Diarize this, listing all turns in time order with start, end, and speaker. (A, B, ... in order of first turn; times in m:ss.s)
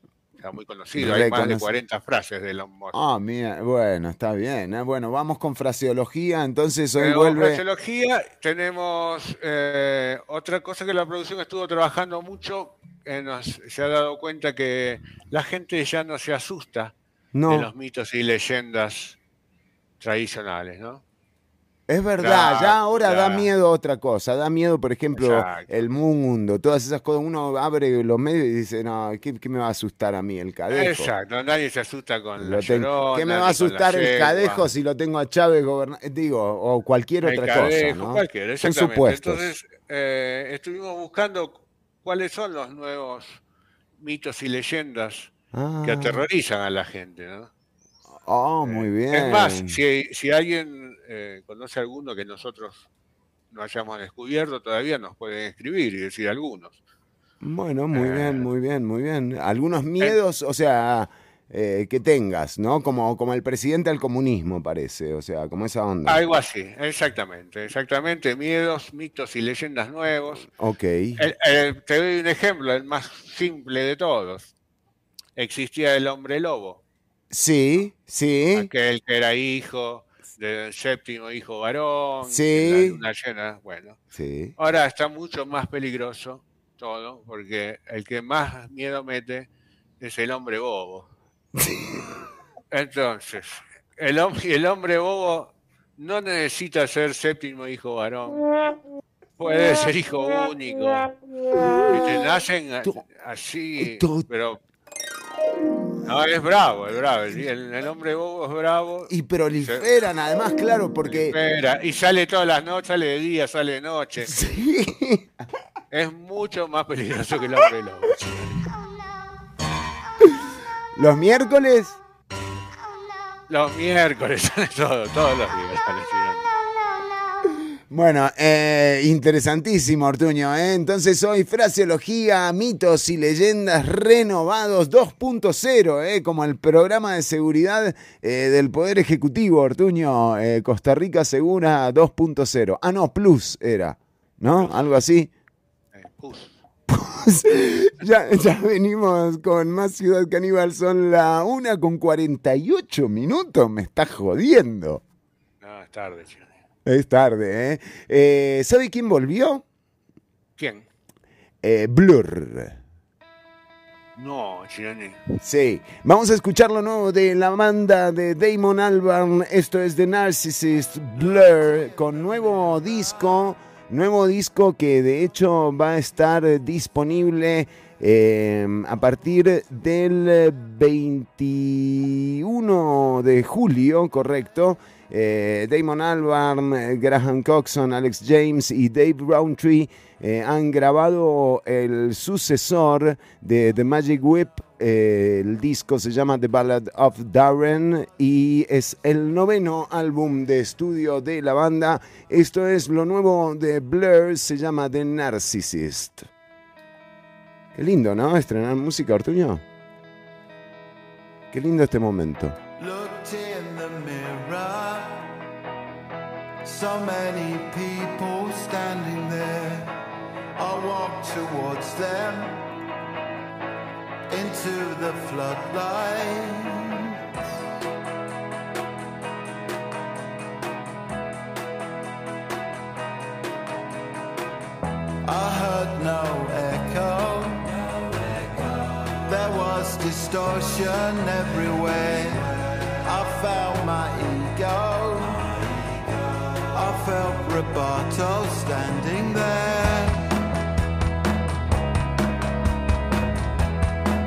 0:00.4-0:03.0 A
0:01.0-0:01.7 B
0:02.9-0:07.6 B
0:07.0-0:16.9 A
0:17.3-0:17.7 B
0:17.5-0:19.2 A
0:20.0-0:21.0 A
0:21.9-0:31.1 B
0:22.2-0:23.5 A
0:25.2-0:25.8 A
0:30.7-0:34.6 A
0:32.4-0:39.4 B
0:37.2-0:43.4 A
0:44.0-0:45.3 A
0:45.5-0:46.2 B
0:45.8-0:47.5 A
0:48.2-0:49.8 B
0:48.6-0:52.9 A
0:53.5-0:56.8 A
0:57.4-1:06.2 B
0:57.9-0:58.5 A
1:06.1-1:10.5 A
1:10.5-1:11.2 B
1:11.2-1:14.5 A
1:15.4-1:16.8 A
1:17.3-1:18.7 B
1:18.5-1:24.0 A
1:22.2-1:23.0 B
1:24.1-1:24.5 B
1:24.6-1:29.5 A
1:30.0-1:31.1 A
1:31.6-1:32.1 B
1:32.7-1:38.4 A
1:39.4-1:41.1 A
1:41.9-1:44.6 A
1:43.8-1:44.3 B
1:46.0-1:49.1 A
1:49.1-1:51.4 B
1:49.6-1:49.9 A
1:51.0-1:54.3 A
1:54.2-1:55.3 B
1:55.9-1:58.6 A
2:01.0-2:02.0 B
2:03.5-2:06.4 A
2:07.9-2:25.3 B
2:24.5-2:24.8 A
2:25.9-2:26.6 A
2:26.9-2:35.0 B
2:35.6-2:36.5 A
2:36.9-2:39.6 B
2:40.6-2:40.9 A
2:41.6-2:42.8 B
2:44.2-2:45.2 A
2:45.4-3:26.3 B
3:27.8-3:29.6 B
3:31.5-3:32.6 B
3:32.8-3:35.3 C
3:36.6-3:39.9 C
3:40.6-3:42.6 C
3:44.3-3:47.1 C
3:55.2-3:57.7 C
3:59.2-4:02.5 C
4:03.0-4:05.6 C
4:06.7-4:10.2 C